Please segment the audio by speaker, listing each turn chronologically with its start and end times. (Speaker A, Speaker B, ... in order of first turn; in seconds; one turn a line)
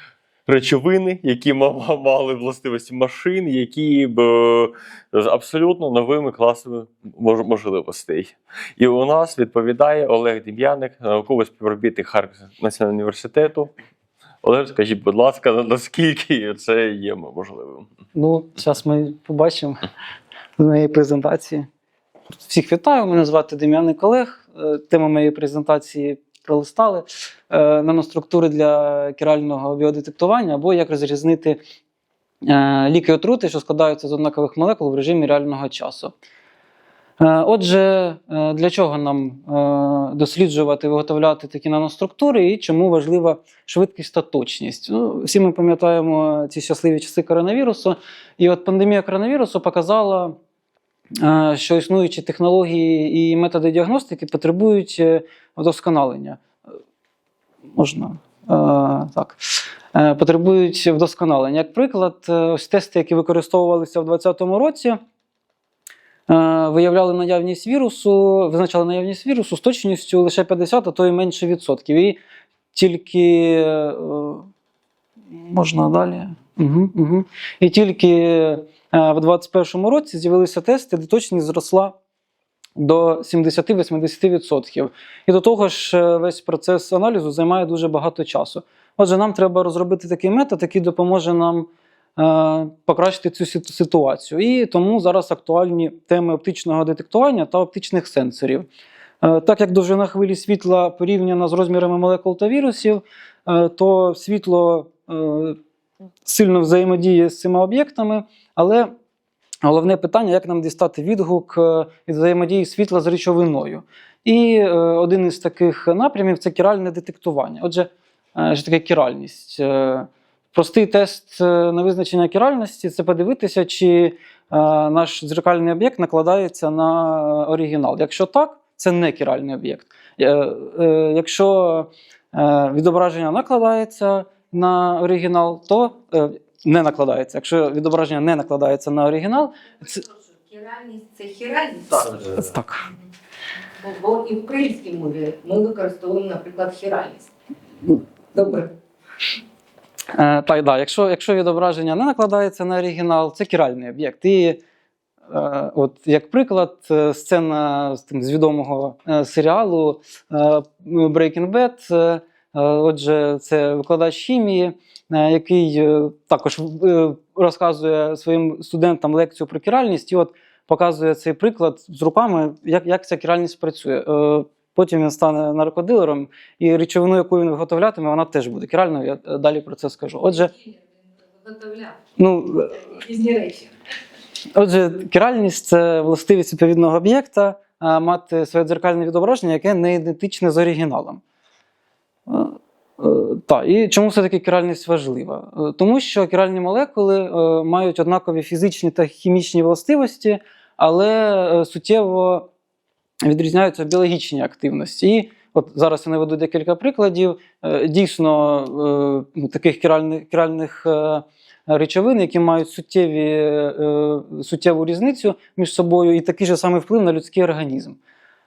Speaker A: 0.5-13.7
Speaker A: 14.4-17.9
Speaker B: 18.1-19.8
Speaker B: 20.6-21.6
Speaker B: 22.4-31.6
Speaker B: 32.4-36.1
Speaker B: 37.2-50.4
Speaker B: 51.2-56.4
Speaker B: 57.7-65.0
Speaker B: 66.3-72.2
Speaker B: 72.7-74.5
Speaker B: 75.3-82.0
Speaker B: 82.8-98.7
Speaker B: 99.2-105.6
Speaker B: 106.2-108.9
Speaker B: 109.6-139.5
Speaker C: 139.8-142.3
Speaker B: 142.2-142.9
Speaker C: 143.8-147.3
Speaker C: 148.3-148.7
Speaker B: 150.1-154.6
Speaker B: 155.3-180.5
Speaker C: 180.3-180.9
Speaker C: 181.4-182.0
Speaker B: 182.2-182.9
Speaker C: 182.8-183.7
Speaker B: 184.5-191.2
Speaker B: 192.3-202.5
Speaker B: 203.2-218.0